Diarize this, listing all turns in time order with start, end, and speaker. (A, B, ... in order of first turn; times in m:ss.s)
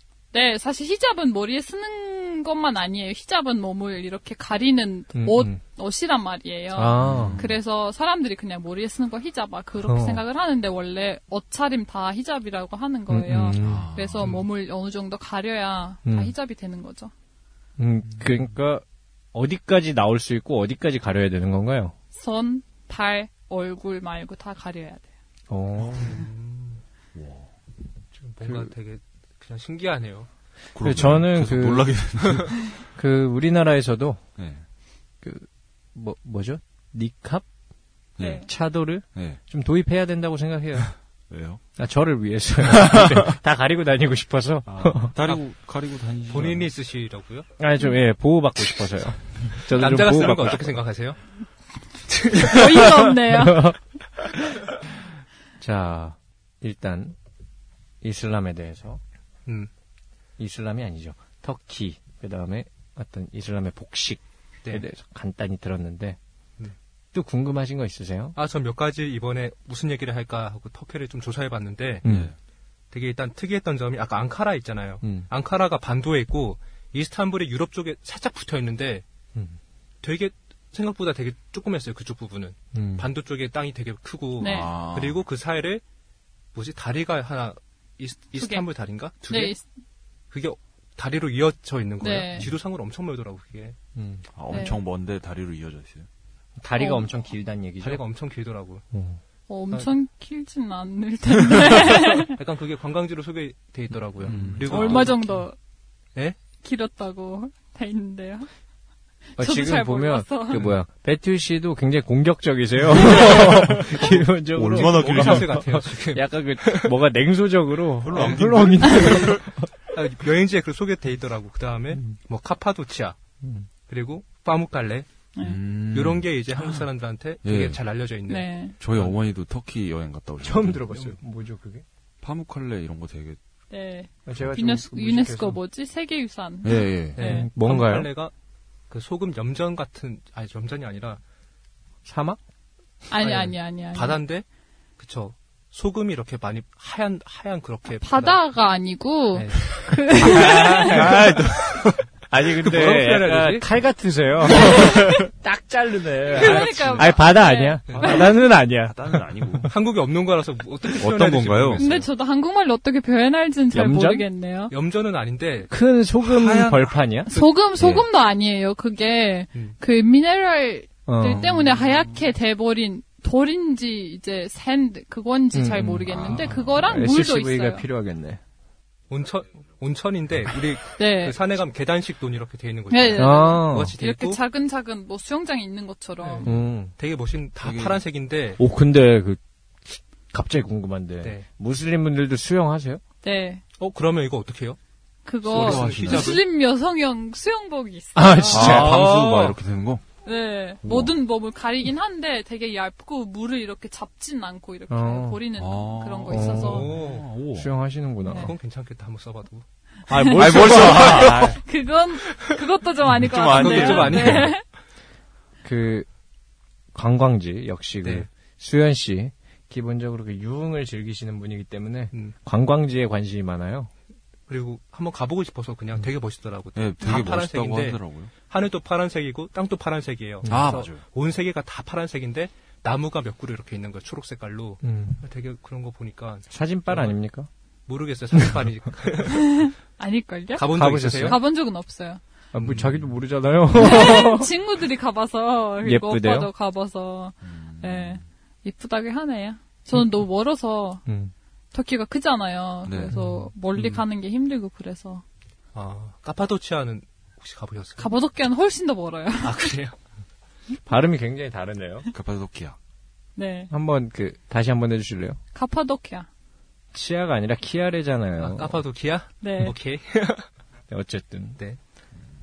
0:00.3-0:17.1 A
0:05.2-0:05.6 B
0:06.8-0:07.4 B
0:07.0-0:07.6 C
0:09.8-0:10.2 B
0:13.1-0:13.9 B
0:13.6-0:14.4 C
0:16.1-0:16.3 B
0:17.8-0:22.0 B
0:22.1-0:25.1 A
0:25.5-0:26.2 B
0:25.9-0:26.8 D
0:27.2-0:27.5 C
0:28.2-0:30.3 D
0:28.4-0:28.7 B
0:30.8-0:32.7 C
0:30.8-0:32.2 B
0:32.8-0:34.2 B
0:34.4-0:34.6 C
0:35.2-0:37.4 B
0:38.2-0:38.5 C
0:38.2-0:38.5 A
0:38.3-0:40.9 B
0:39.1-0:39.4 C
0:41.3-0:41.6 C
0:41.8-0:45.1 B
0:42.7-0:43.3 C
0:44.7-0:46.7 C
0:46.3-0:47.5 D
0:47.6-0:50.7 B
0:49.7-0:51.2 D
0:52.1-0:52.6 D
0:52.3-0:53.7 A
0:52.6-0:54.4 B
0:55.6-0:57.2 B
0:58.0-0:59.0 B
1:00.4-1:06.2 B
1:07.1-1:08.4 B
1:08.4-1:12.0 D
1:12.0-1:12.3 B
1:12.0-1:12.3 C
1:12.9-1:19.0 D
1:20.0-1:25.8 D
1:22.7-1:23.1 B
1:24.4-1:24.7 A
1:24.4-1:25.2 C
1:26.5-1:29.6 D
1:28.4-1:28.6 A
1:29.3-1:29.6 A
1:30.3-1:33.8 D
1:32.0-1:32.5 A
1:34.0-1:34.2 B
1:34.3-1:36.1 C
1:34.5-1:34.8 A
1:36.6-1:38.0 B
1:36.8-1:37.1 A
1:37.8-1:38.8 D
1:38.9-1:39.2 B
1:39.5-1:42.4 A
1:41.8-1:45.3 D
1:44.2-1:45.0 B
1:44.3-1:45.1 C
1:44.7-1:45.6 A
1:46.6-1:48.5 A
1:49.4-1:50.6 A
1:49.4-1:59.7 B
1:53.1-1:57.0 D
1:53.1-1:55.6 C
1:58.0-1:59.4 C
1:58.1-2:03.2 D
2:03.4-2:03.7 B
2:03.9-2:05.1 D
2:05.4-2:06.3 C
2:05.9-2:09.2 D
2:07.4-2:07.8 C
2:08.3-2:08.8 A
2:08.8-2:10.8 C
2:10.4-2:11.8 B
2:10.9-2:11.2 D
2:12.2-2:13.4 C
2:13.7-2:17.5 A
2:14.3-2:15.6 B
2:16.6-2:17.2 C
2:17.2-2:18.1 B
2:17.2-2:18.3 D
2:18.9-2:21.2 D
2:22.0-2:22.4 B
2:23.1-2:24.2 A
2:23.2-2:24.4 D
2:25.0-2:28.4 D
2:28.0-2:31.1 A
2:29.4-2:39.7 B
2:30.9-2:32.0 C
2:32.6-2:33.7 D
2:34.7-2:35.1 C
2:36.3-2:38.3 A
2:36.4-2:37.1 C
2:37.9-2:38.2 D
2:38.0-2:39.7 C
2:39.7-2:42.1 D
2:41.0-2:41.8 C
2:41.8-2:44.7 A
2:43.7-2:44.3 B
2:44.7-2:45.7 D
2:45.7-2:47.3 B
2:46.2-2:47.0 C
2:47.3-2:57.9 A
2:47.8-2:48.1 C
2:51.1-2:51.5 B
2:51.3-2:52.1 C
2:55.5-2:58.4 B
2:56.1-2:57.0 C
2:59.1-3:04.4 D
3:01.0-3:01.4 A
3:02.9-3:06.5 A
3:03.2-3:04.0 B
3:06.2-3:08.6 D
3:06.4-3:06.9 B
3:07.6-3:08.0 C
3:08.6-3:13.0 B
3:13.2-3:13.6 A
3:13.8-3:14.8 D
3:15.3-3:18.8 A
3:15.4-3:16.4 D
3:15.5-3:16.4 C
3:18.2-3:19.0 B
3:18.5-3:20.0 C
3:18.6-3:19.6 D
3:20.2-3:26.9 A
3:24.9-3:25.4 B
3:25.6-3:27.7 C
3:26.3-3:27.0 B
3:26.6-3:27.3 D
3:27.5-3:28.5 B
3:28.2-3:28.5 A
3:28.4-3:29.6 D
3:30.1-3:31.6 B
3:30.1-3:34.6 A
3:30.3-3:31.6 C
3:30.6-3:31.4 D
3:33.1-3:34.5 C
3:33.4-3:34.6 D
3:35.6-3:36.1 B
3:36.9-3:43.9 B
3:38.0-3:38.3 D
3:44.5-3:57.2 D
3:46.8-3:48.3 C
3:50.4-3:50.8 B
3:50.5-3:51.0 C
3:54.8-3:55.2 B
3:56.5-3:57.5 B
3:57.9-3:59.7 D
3:59.3-4:02.2 A
4:00.6-4:01.4 D
4:00.6-4:01.4 B
4:02.5-4:04.5 B
4:02.6-4:03.0 D
4:03.8-4:11.0 A
4:05.8-4:06.5 B
4:07.4-4:08.2 C
4:11.1-4:11.3 B
4:11.7-4:15.2 A
4:12.8-4:13.2 C
4:13.1-4:13.5 B
4:13.8-4:14.0 D
4:15.8-4:18.1 D
4:18.0-4:19.7 A
4:19.4-4:20.0 D
4:20.8-4:22.1 B
4:22.1-4:22.8 C
4:23.4-4:23.7 A
4:23.7-4:25.4 B
4:25.5-4:26.3 A
4:26.9-4:28.8 B
4:28.4-4:30.5 D
4:29.4-4:29.8 A
4:30.9-4:31.6 B